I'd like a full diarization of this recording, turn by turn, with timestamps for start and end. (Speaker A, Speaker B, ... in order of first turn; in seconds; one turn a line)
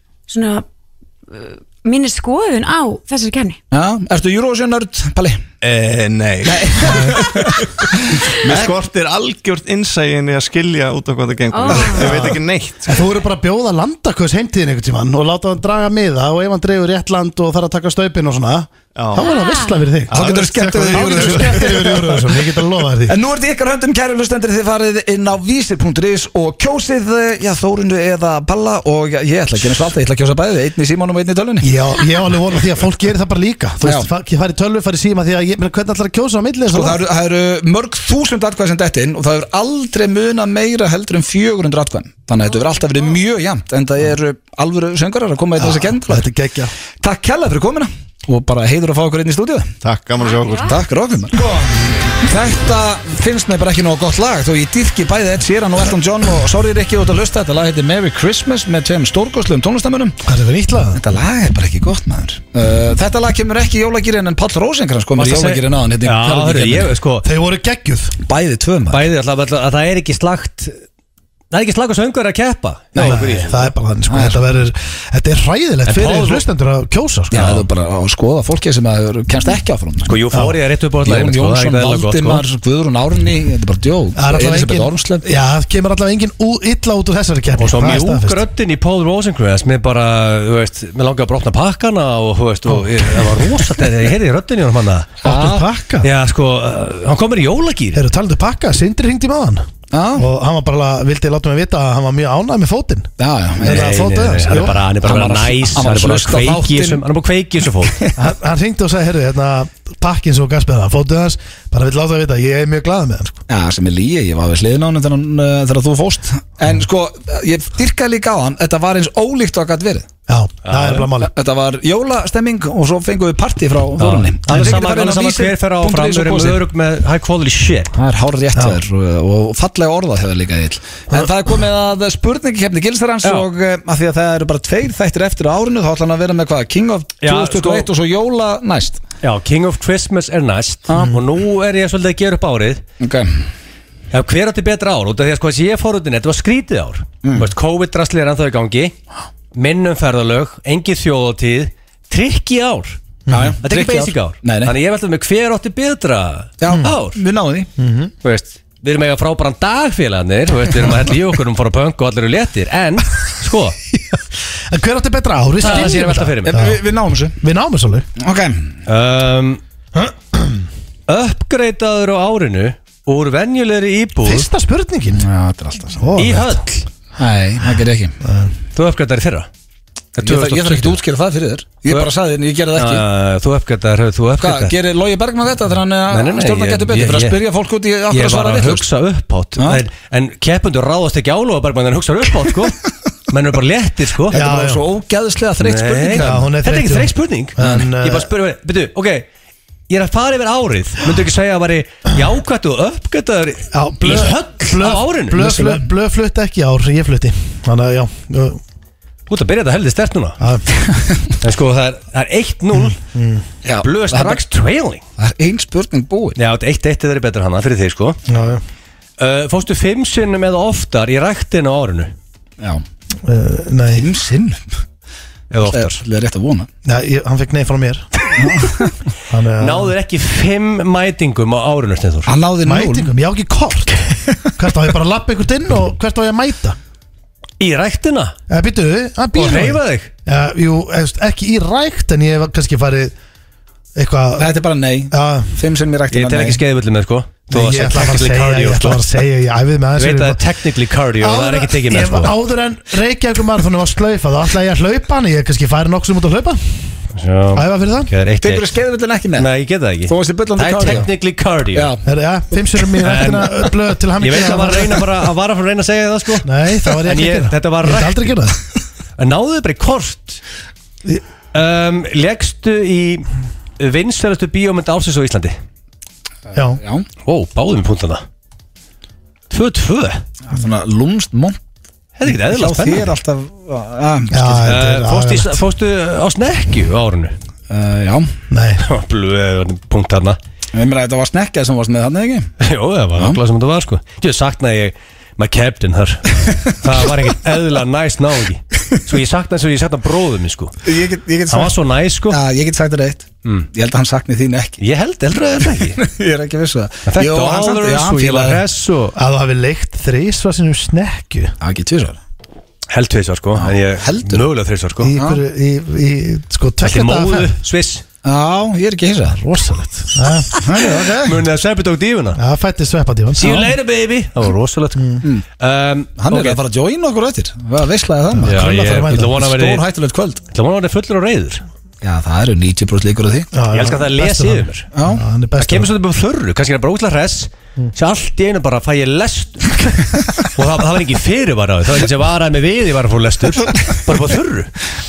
Speaker A: 0.3-0.6
Speaker A: 1.3-3.6
Speaker B: 3.7-5.4
Speaker C: 5.6-7.6
Speaker B: 6.4-7.6
Speaker D: 6.8-7.2
Speaker C: 8.3-13.0
Speaker A: 11.5-12.3
Speaker D: 12.0-23.1
Speaker C: 18.9-19.2
Speaker A: 19.2-19.9
Speaker B: 20.1-22.3
Speaker C: 20.1-22.0
Speaker B: 23.1-31.7
Speaker D: 31.6-37.0
Speaker B: 33.8-34.1
Speaker B: 36.7-46.3
Speaker D: 45.6-46.7
Speaker B: 47.0-49.7
Speaker C: 49.8-50.7
Speaker A: 50.2-50.7
Speaker B: 50.6-60.2
Speaker D: 60.2-61.0
Speaker B: 60.9-66.9
Speaker E: 65.2-67.2
Speaker D: 67.2-68.2
Speaker B: 68.2-69.0
Speaker E: 68.9-70.8
Speaker E: 71.5-73.7
Speaker B: 72.9-73.2
Speaker D: 73.0-77.6
Speaker B: 74.1-74.4
Speaker E: 75.9-76.4
Speaker B: 77.3-80.2
Speaker E: 80.0-82.4
Speaker B: 81.0-85.2
Speaker D: 84.2-88.4
Speaker E: 87.6-95.3
Speaker D: 92.7-93.5
Speaker B: 95.2-95.6
Speaker D: 95.2-96.1
Speaker E: 96.0-98.0
Speaker D: 97.9-104.8
Speaker B: 99.9-100.3
Speaker B: 103.2-104.0
Speaker E: 103.6-108.0
Speaker B: 105.0-107.0
Speaker B: 107.8-108.1
Speaker D: 108.2-113.4
Speaker B: 113.5-120.1
Speaker D: 120.3-121.3
Speaker E: 120.7-121.1
Speaker B: 121.2-126.6
Speaker E: 124.0-127.9
Speaker D: 124.5-124.8
Speaker B: 127.9-139.0
Speaker E: 137.2-137.9
Speaker E: 139.2-142.8
Speaker B: 143.0-143.4
Speaker E: 144.1-148.9
Speaker B: 147.2-147.5
Speaker E: 149.5-153.0
Speaker D: 153.3-153.6
Speaker B: 153.3-154.7
Speaker E: 153.6-157.2
Speaker B: 156.6-157.7
Speaker D: 157.8-158.1
Speaker E: 158.2-163.8
Speaker D: 163.9-166.8
Speaker E: 165.6-166.6
Speaker B: 166.4-167.4
Speaker D: 167.4-168.1
Speaker B: 168.2-168.7
Speaker E: 168.9-169.6
Speaker D: 169.9-170.6
Speaker E: 171.1-174.5
Speaker D: 174.2-175.2
Speaker B: 175.1-176.1
Speaker D: 176.0-176.6
Speaker E: 176.2-176.9
Speaker B: 177.2-178.2
Speaker D: 178.2-178.5
Speaker E: 178.7-179.5
Speaker B: 180.2-183.0
Speaker E: 180.2-181.0
Speaker E: 182.8-184.7
Speaker B: 184.4-188.8
Speaker E: 186.1-187.4
Speaker E: 188.1-194.4
Speaker B: 189.6-189.8
Speaker D: 194.3-194.8
Speaker B: 194.3-196.4
Speaker E: 195.6-199.2
Speaker D: 196.2-198.3
Speaker E: 199.9-205.7
Speaker D: 203.7-208.6
Speaker E: 209.3-210.4
Speaker D: 210.4-210.7
Speaker B: 210.9-211.3
Speaker E: 211.4-213.0
Speaker D: 212.8-213.4
Speaker B: 213.6-214.4
Speaker E: 213.8-215.0
Speaker B: 215.2-216.4
Speaker E: 216.4-218.2
Speaker D: 218.3-218.6
Speaker E: 219.2-222.1
Speaker D: 223.2-224.1
Speaker B: 223.9-224.6
Speaker E: 225.5-226.0
Speaker B: 225.6-226.7
Speaker D: 226.8-228.6
Speaker B: 228.4-228.9
Speaker D: 229.3-229.9
Speaker E: 229.6-232.3
Speaker B: 232.2-233.1
Speaker D: 232.6-234.0
Speaker D: 234.6-236.8
Speaker E: 237.6-238.3
Speaker D: 238.5-243.1
Speaker E: 239.3-240.1
Speaker D: 243.9-244.5
Speaker B: 244.4-246.6
Speaker D: 245.1-245.5
Speaker E: 246.1-249.1
Speaker D: 247.5-250.4
Speaker E: 250.0-252.3
Speaker D: 251.2-256.6
Speaker E: 257.1-258.7
Speaker D: 257.5-258.1
Speaker B: 258.4-259.5
Speaker E: 259.4-261.9
Speaker B: 260.1-261.1
Speaker B: 261.7-262.0
Speaker D: 262.1-265.1
Speaker E: 263.0-268.4
Speaker D: 266.4-268.6
Speaker E: 269.2-270.4
Speaker E: 271.5-273.3
Speaker E: 273.8-275.6
Speaker D: 276.5-276.8
Speaker B: 276.5-277.1
Speaker E: 277.2-278.2
Speaker E: 279.5-280.2
Speaker B: 280.5-281.6
Speaker E: 282.2-283.1
Speaker B: 282.3-284.7
Speaker D: 284.3-285.6
Speaker E: 284.6-287.4
Speaker B: 287.7-288.3
Speaker D: 288.5-288.9
Speaker E: 288.8-290.4
Speaker B: 290.7-292.5
Speaker E: 292.6-300.8
Speaker B: 300.8-301.7
Speaker E: 301.5-302.4
Speaker B: 302.3-304.8
Speaker E: 304.8-306.0
Speaker B: 306.0-308.6
Speaker E: 307.1-309.1
Speaker D: 309.1-311.6
Speaker B: 311.6-312.2
Speaker E: 312.9-315.1
Speaker B: 313.6-314.5
Speaker D: 315.0-317.6
Speaker B: 315.1-315.4
Speaker E: 316.8-318.0
Speaker B: 318.2-319.5
Speaker D: 319.4-320.6
Speaker B: 320.6-321.4
Speaker E: 321.0-322.4
Speaker D: 322.4-323.7
Speaker E: 323.4-326.6
Speaker D: 325.0-325.2
Speaker B: 326.2-330.4
Speaker D: 328.3-329.3
Speaker E: 328.4-329.8
Speaker E: 330.5-331.6
Speaker B: 332.0-333.5
Speaker D: 333.5-335.9
Speaker E: 333.7-334.9
Speaker B: 334.9-335.2
Speaker E: 335.6-344.7